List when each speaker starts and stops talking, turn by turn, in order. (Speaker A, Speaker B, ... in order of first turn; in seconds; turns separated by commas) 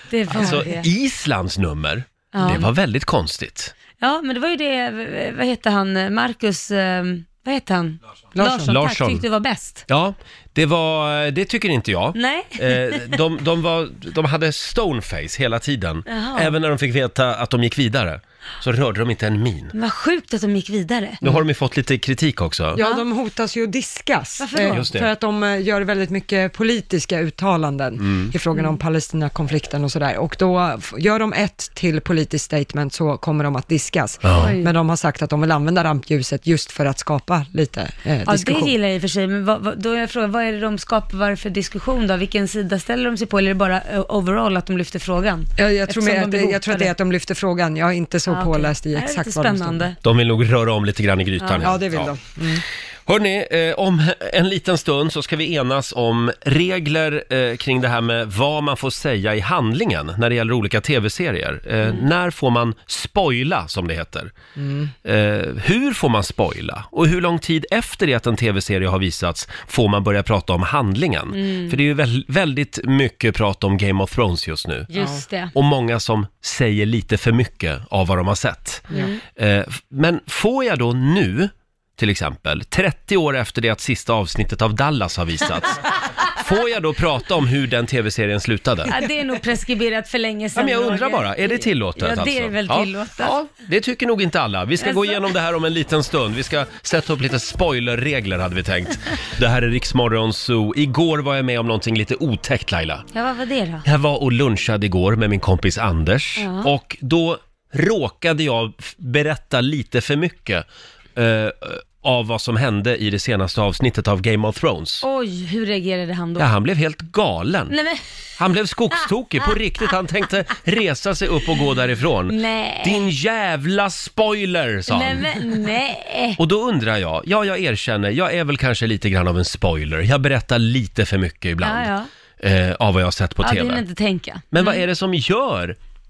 Speaker A: 0.1-0.9, Speaker B: 0.3-3.7, Speaker A: 2.3-2.7, Speaker A: 4.0-9.8, Speaker C: 8.3-8.7, Speaker B: 8.5-9.2, Speaker B: 9.9-19.7, Speaker A: 12.1-13.2, Speaker A: 16.1-16.6, Speaker A: 19.7-21.2, Speaker B: 21.2-22.8, Speaker C: 22.7-38.7, Speaker A: 22.8-23.0, Speaker A: 24.4-24.8, Speaker B: 24.7-25.1, Speaker B: 28.0-28.3, Speaker A: 28.5-28.8, Speaker B: 34.2-34.5, Speaker A: 34.3-34.7, Speaker A: 38.2-46.9, Speaker C: 45.6-49.8, Speaker A: 48.3-50.0, Speaker B: 50.0-52.2, Speaker A: 51.4-51.7, Speaker C: 51.6-52.6, Speaker B: 53.0-64.3, Speaker C: 64.6-64.9, Speaker B: 65.0-74.9, Speaker A: 71.3-71.8, Speaker A: 74.9-75.5, Speaker B: 75.5-88.9, Speaker A: 78.9-79.2, Speaker A: 88.9-93.4, Speaker B: 90.5-103.0, Speaker A: 94.8-95.2, Speaker A: 103.1-103.8, Speaker B: 103.8-110.6, Speaker A: 106.4-106.7, Speaker B: 111.2-115.0, Speaker A: 115.0-116.5, Speaker B: 116.4-117.8, Speaker A: 117.7-118.0, Speaker B: 118.4-125.3, Speaker A: 119.0-119.5, Speaker A: 122.3-123.1, Speaker A: 124.9-126.4, Speaker B: 126.4-133.8, Speaker A: 131.6-132.1, Speaker A: 133.4-134.8, Speaker B: 134.5-135.8